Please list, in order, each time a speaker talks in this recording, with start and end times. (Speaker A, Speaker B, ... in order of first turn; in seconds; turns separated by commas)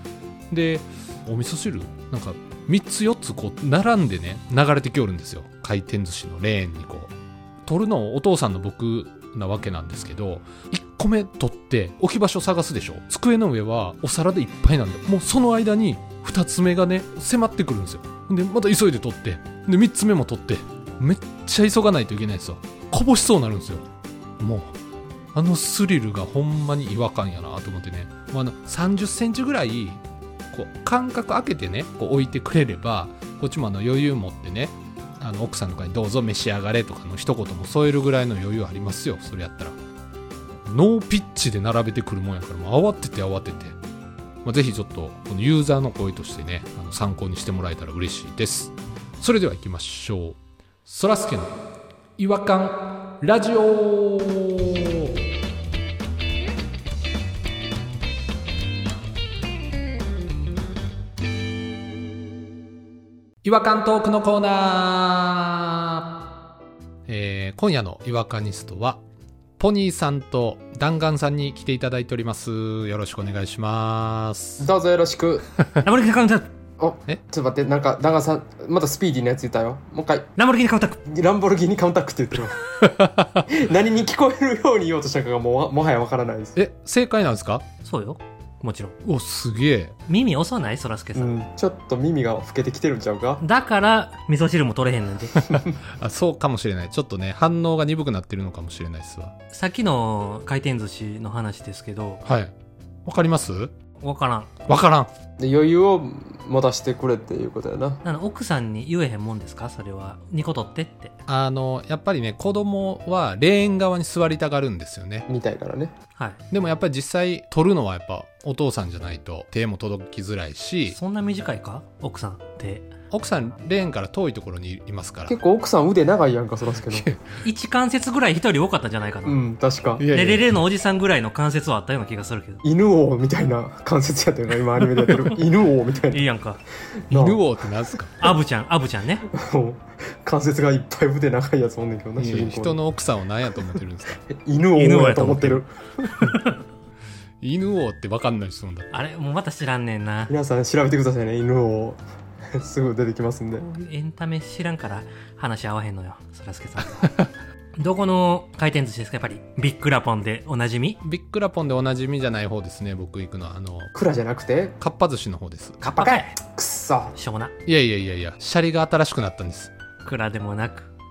Speaker A: 0.5-7.1, Speaker A: 7.7-23.8, Speaker A: 24.4-24.7, Speaker A: 25.3-30.0, Speaker A: 30.5-39.7, Speaker A: 40.7-43.8, Speaker A: 44.4-51.5, Speaker A: 52.2-55.1, Speaker A: 63.4-66.1, Speaker A: 67.1-69.0, Speaker A: 69.6-74.7, Speaker B: 74.6-75.5, Speaker C: 75.8-76.5, Speaker B: 76.8-80.3, Speaker C: 80.3-81.0, Speaker B: 81.0-82.6, Speaker A: 82.8-83.5, Speaker B: 83.5-86.5, Speaker A: 86.5-87.6, Speaker C: 87.8-88.9, Speaker A: 89.0-89.9, Speaker C: 90.1-91.4, Speaker B: 91.1-93.4, Speaker C: 93.4-95.3, Speaker A: 95.4-99.3, Speaker C: 99.5-102.2, Speaker A: 102.2-102.5, Speaker A: 103.0-103.7, Speaker C: 104.0-104.5, Speaker A: 104.7-105.1, Speaker B: 105.4-108.0, Speaker C: 108.0-111.1, Speaker A: 111.3-115.3, Speaker B: 115.3-115.9, Speaker A: 116.5-121.0, Speaker C: 120.9-122.9, Speaker A: 123.1-125.3, Speaker B: 125.3-127.1, Speaker A: 126.8-127.3, Speaker C: 127.4-129.4, Speaker B: 129.2-130.1, Speaker A: 130.0-130.5, Speaker C: 130.1-132.6, Speaker B: 132.6-136.2, Speaker A: 134.9-135.4, Speaker C: 136.1-136.6, Speaker B: 137.1-137.4, Speaker A: 137.1-138.1, Speaker C: 138.2-139.2, Speaker B: 139.3-142.8, Speaker A: 142.2-144.2, Speaker B: 144.3-145.7, Speaker C: 144.8-146.6, Speaker A: 147.4-148.9, Speaker C: 148.9-150.3, Speaker B: 150.3-152.0, Speaker B: 152.5-153.7, Speaker C: 153.6-157.1, Speaker C: 157.8-161.0, Speaker A: 161.0-163.9, Speaker B: 163.9-164.8, Speaker A: 164.8-165.8, Speaker B: 165.8-167.2, Speaker C: 165.9-166.4, Speaker C: 167.2-167.5, Speaker A: 167.7-169.7, Speaker C: 170.0-170.9